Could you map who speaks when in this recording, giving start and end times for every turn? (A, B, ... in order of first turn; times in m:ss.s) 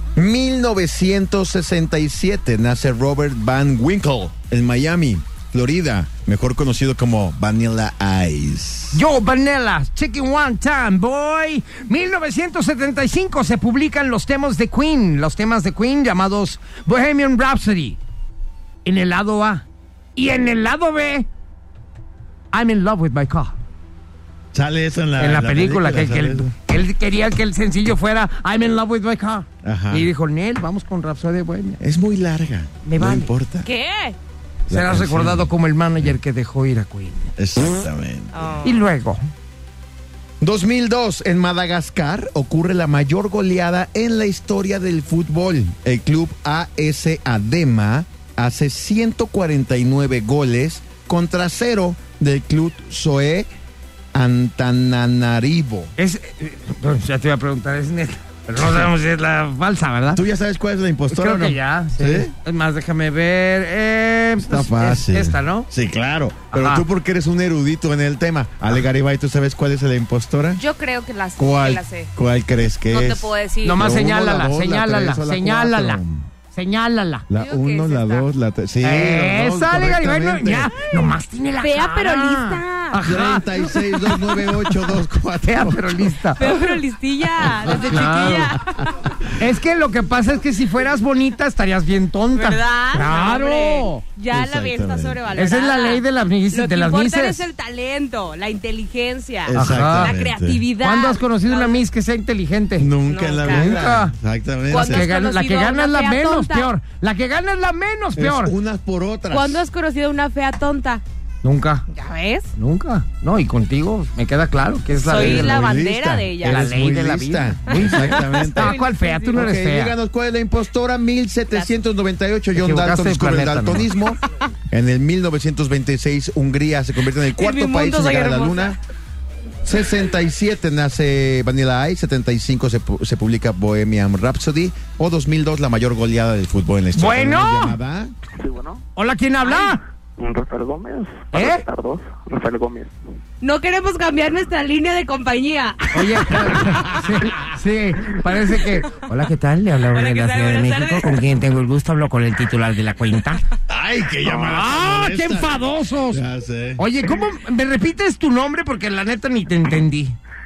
0:00.2-0:09.0 A
0:08.9-0:18.0 B
0:18.8-0:19.6 B
0:20.2-0:21.3 B
0:22.5-0:23.6 B
0:24.5-0:26.5 A
0:25.2-0:31.8 B
0:29.6-0:30.1 A
0:31.8-0:33.7 A
0:32.8-0:33.3 B
0:33.6-0:34.2 C
0:34.7-0:35.5 A
0:34.7-0:37.3 B
0:37.4-0:38.4 A
0:38.3-0:38.8 C
0:38.6-0:39.2 B
0:40.4-0:53.5 A
0:54.1-0:55.9 A
0:56.0-1:00.2 B
1:00.1-1:02.3 A
1:01.1-1:05.7 B
1:04.4-1:10.6 A
1:06.5-1:06.8 B
1:10.6-1:12.1 C
1:11.4-1:16.3 A
1:12.9-1:13.9 C
1:13.6-1:17.3 B
1:17.3-1:20.7 A
1:17.3-1:18.3 C
1:18.8-1:24.9 B
1:21.6-1:23.0 C
1:23.0-1:26.2 A
1:25.4-1:26.8 B
1:26.4-1:29.0 C
1:27.6-1:28.5 B
1:27.8-1:28.1 A
1:29.4-1:34.0 B
1:32.4-1:41.8 C
1:34.3-1:35.2 A
1:35.4-1:37.4 B
1:39.4-1:40.6 A
1:39.5-1:40.1 B
1:40.8-1:42.9 B
1:42.8-1:45.1 A
1:43.0-1:43.8 C
1:43.5-1:44.1 B
1:44.7-1:46.7 C
1:44.7-1:48.5 B
1:48.2-1:49.6 A
1:49.3-1:51.0 C
1:51.4-1:51.9 B
1:51.9-1:52.5 C
1:52.6-1:55.6 B
1:55.0-1:56.7 C
1:55.1-1:58.8 A
1:56.4-1:59.9 B
1:57.7-1:59.5 C
1:59.3-2:04.2 A
2:02.6-2:03.9 B
2:04.7-2:08.8 A
2:07.4-2:08.8 C
2:09.6-2:18.1 A
2:16.9-2:17.8 B
2:18.3-2:18.8 D
2:19.0-2:19.8 B
2:19.5-2:23.0 D
2:21.3-2:21.6 B
2:23.4-2:26.9 C
2:25.9-2:33.4 B
2:26.7-2:27.1 A
2:29.9-2:31.2 C
2:33.7-2:36.8 A
2:34.3-2:36.2 B
2:36.8-2:40.2 B